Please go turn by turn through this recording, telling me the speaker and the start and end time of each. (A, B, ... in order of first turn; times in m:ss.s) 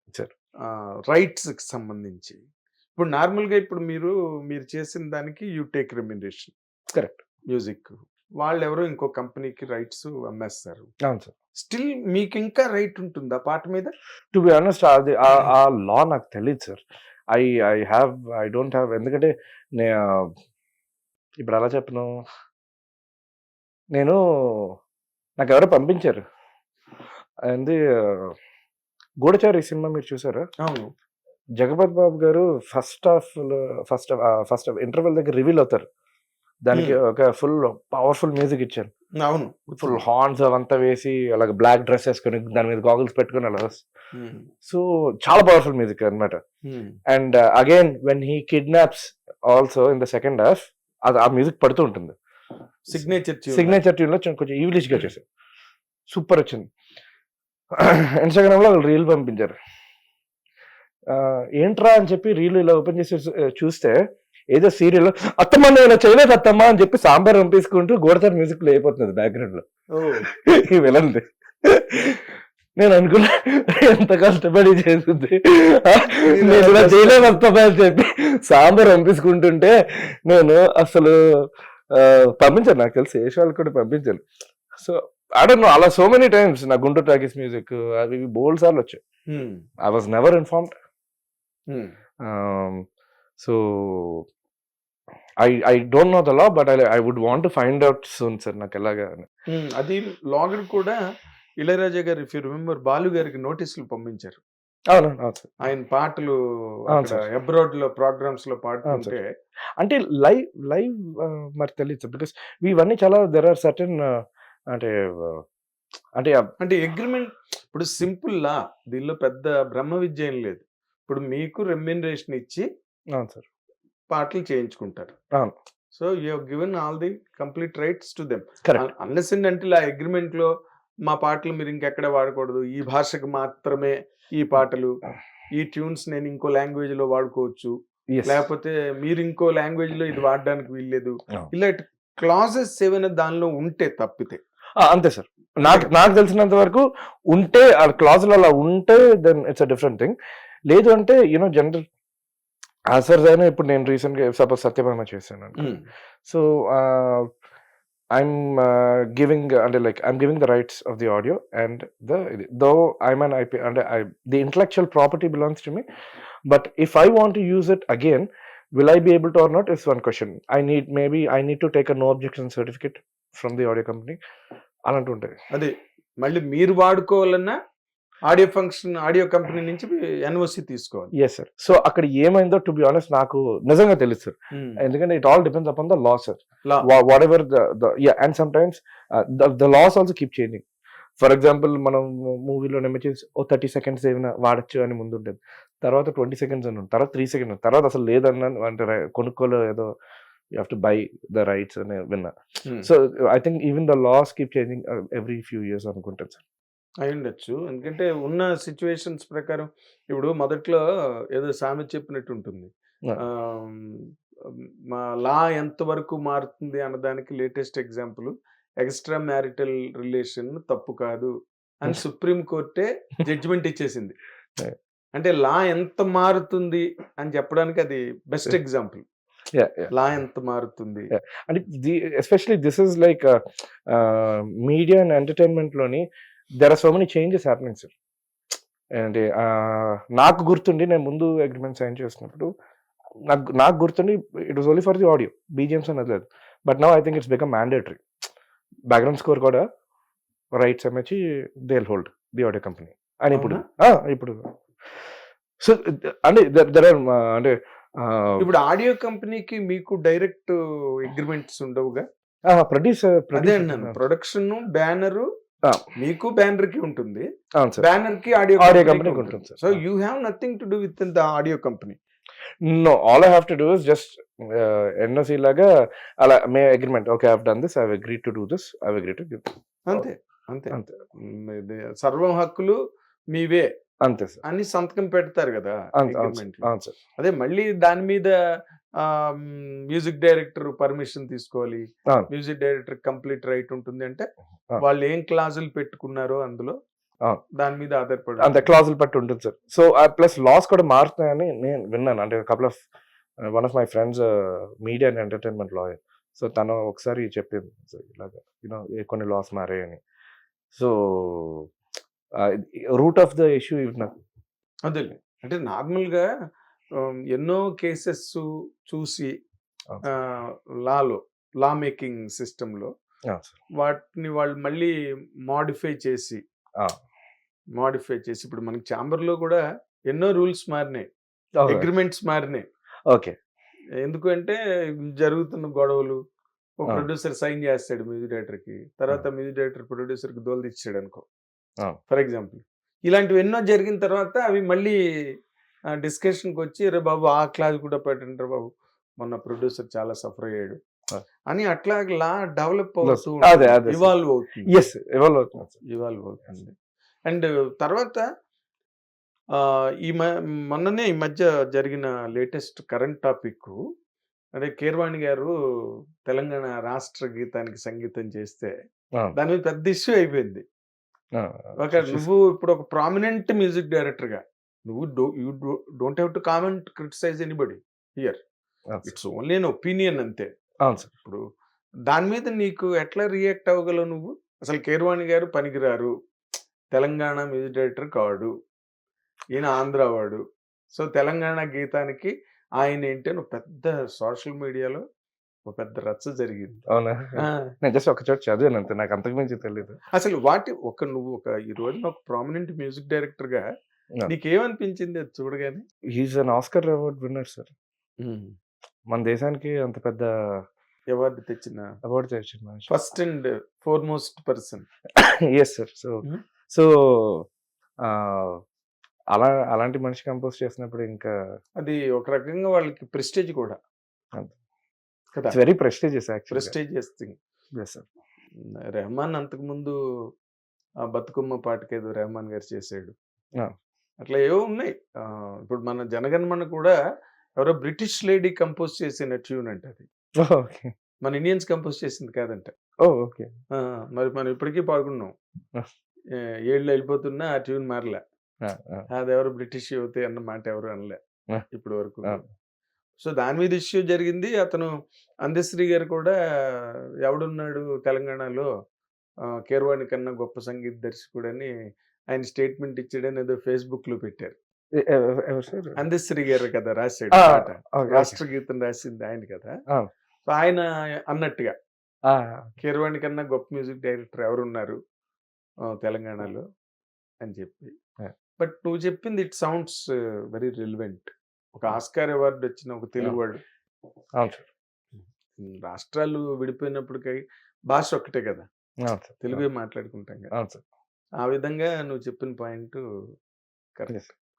0:00.7-0:02.4 A
0:03.0-0:06.5 A
0:06.9-0:07.2 B
0:07.5-0:10.9 A
0:11.1-0:11.3 B
0:11.6-0:13.9 A
0:14.3-0:20.4 B
0:21.4-0:22.1 B
0:23.9-0:24.8 B
0:25.4-0:26.2 B
0:27.5-0:28.4 B
0:29.2-0:30.5 B
0:30.6-0:30.9 A
0:31.6-0:35.9 B
0:36.6-0:38.9 B
0:36.7-0:37.0 A
0:39.2-0:40.0 A
0:39.8-0:43.8 B
0:44.1-0:44.5 A
0:44.6-0:46.4 B
0:46.6-0:47.0 A
0:47.1-0:52.2 B
0:52.9-0:53.8 A
0:52.9-0:55.3 B
0:56.1-0:56.7 B
0:57.8-0:59.6 B
1:01.1-1:09.6 B
1:09.9-1:10.3 A
1:10.3-1:24.2 B
1:16.3-1:17.3 A
1:24.8-1:29.0 B
1:29.3-1:29.6 A
1:29.8-1:30.7 B
1:32.2-1:32.9 B
1:33.4-1:34.3 B
1:35.4-1:39.3 B
1:39.5-1:41.0 A
1:41.6-1:44.4 A
1:44.9-1:45.5 B
1:45.6-1:49.3 A
1:46.9-1:47.2 B
1:48.9-1:49.2 B
1:49.8-1:55.4 B
1:56.2-1:56.5 B
1:56.6-2:02.6 A
2:03.2-2:03.5 B
2:04.1-2:05.2 A
2:05.9-2:10.5 A
2:11.0-2:15.0 A
2:15.5-2:17.7 A
2:18.1-2:18.4 B
2:18.2-2:24.4 A
2:24.8-2:30.2 B
2:25.6-2:25.9 A
2:30.7-2:31.8 B
2:32.9-2:35.7 B
2:35.6-2:35.9 A
2:36.2-2:37.3 B
2:38.2-2:45.8 B
2:46.5-2:54.2 B
2:54.9-2:55.4 B
2:55.5-2:57.6 A
2:58.3-3:01.1 A
3:01.2-3:10.6 B
3:04.5-3:04.8 A
3:11.2-3:19.9 B
3:20.6-3:26.4 B
3:27.0-3:41.3 A
3:41.8-3:44.2 A
3:45.2-3:49.0 A
3:49.5-3:49.9 B
3:49.9-3:51.1 A
3:51.1-3:56.0 B
3:56.6-3:57.9 B
3:59.0-4:02.5 B
4:03.3-4:08.0 B
4:08.9-4:09.6 B
4:10.6-4:18.5 B
4:13.3-4:13.6 A
4:18.4-4:22.0 A
4:22.5-4:24.0 B
4:23.3-4:25.3 A
4:26.0-4:27.3 A
4:27.6-4:27.8 B
4:27.8-4:32.0 A
4:28.6-4:29.8 B
4:32.7-4:35.7 B
4:36.2-4:40.1 B
4:39.9-4:42.8 A
4:40.7-4:41.0 B
4:43.3-4:43.7 A
4:44.0-4:44.4 B
4:44.4-4:48.4 A
4:46.0-4:47.0 B
4:49.0-4:54.3 A
4:54.8-4:56.8 A
4:57.6-4:58.7 A
4:58.4-5:02.8 B
5:03.4-5:10.0 B
5:10.7-5:11.7 B
5:12.4-5:14.2 B
5:14.9-5:16.3 A
5:17.0-5:19.3 A
5:20.0-5:22.9 A
5:23.3-5:23.6 B
5:23.8-5:24.9 A
5:25.5-5:26.4 A
5:27.8-5:31.1 A
5:31.6-5:31.9 B
5:31.6-5:32.6 A
5:33.1-5:33.4 B
5:34.0-5:36.2 A
5:36.8-5:41.2 A
5:42.1-5:45.0 A
5:46.0-5:48.7 A
5:49.2-5:50.8 A
5:51.5-5:54.8 A
5:53.0-5:54.1 B
5:54.7-5:55.8 B
5:55.9-5:56.7 A
5:57.3-5:58.2 A
5:59.6-6:03.8 A
6:04.6-6:05.5 A
6:06.2-6:08.7 A
6:09.4-6:10.6 A
6:11.4-6:12.3 B
6:11.8-6:18.4 A
6:19.0-6:20.5 A
6:20.8-6:21.1 B
6:22.1-6:26.1 A
6:26.9-6:28.5 A
6:29.5-6:30.4 A
6:31.0-6:35.0 A
6:35.7-6:36.8 A
6:36.9-6:40.0 B
6:37.4-6:37.7 A
6:40.2-6:43.7 A
6:44.3-6:45.8 A
6:46.1-6:47.7 B
6:48.2-6:48.6 A
6:49.1-6:50.3 B
6:51.1-6:51.9 A
6:52.0-6:52.9 B
6:52.9-6:54.9 A
6:55.2-6:57.5 B
6:58.0-6:58.6 B
6:59.3-7:01.3 B
7:01.8-7:03.8 A
7:05.5-7:06.7 B
7:06.5-7:07.4 A
7:07.8-7:08.1 B
7:08.9-7:10.0 A
7:11.1-7:13.1 A
7:14.2-7:17.0 A
7:17.6-7:20.1 A
7:20.4-7:20.9 B
7:21.2-7:22.7 A
7:23.0-7:23.5 B
7:23.7-7:25.3 A
7:26.4-7:28.2 A
7:28.6-7:29.1 B
7:29.1-7:31.2 A
7:31.7-7:32.4 A
7:33.2-7:34.9 A
7:35.4-7:38.7 A
7:39.6-7:41.7 A
7:42.3-7:44.6 A
7:44.9-7:46.0 B
7:46.0-7:49.7 A
7:47.3-7:48.4 B
7:50.5-7:51.8 A
7:52.3-7:52.8 B
7:52.8-7:55.0 A
7:55.9-7:56.6 A
7:57.4-7:57.9 A
7:58.6-8:03.6 A
8:04.4-8:04.7 B
8:05.6-8:08.7 A
8:09.0-8:09.6 B
8:09.4-8:10.5 A
8:10.5-8:10.8 B
8:11.4-8:13.0 A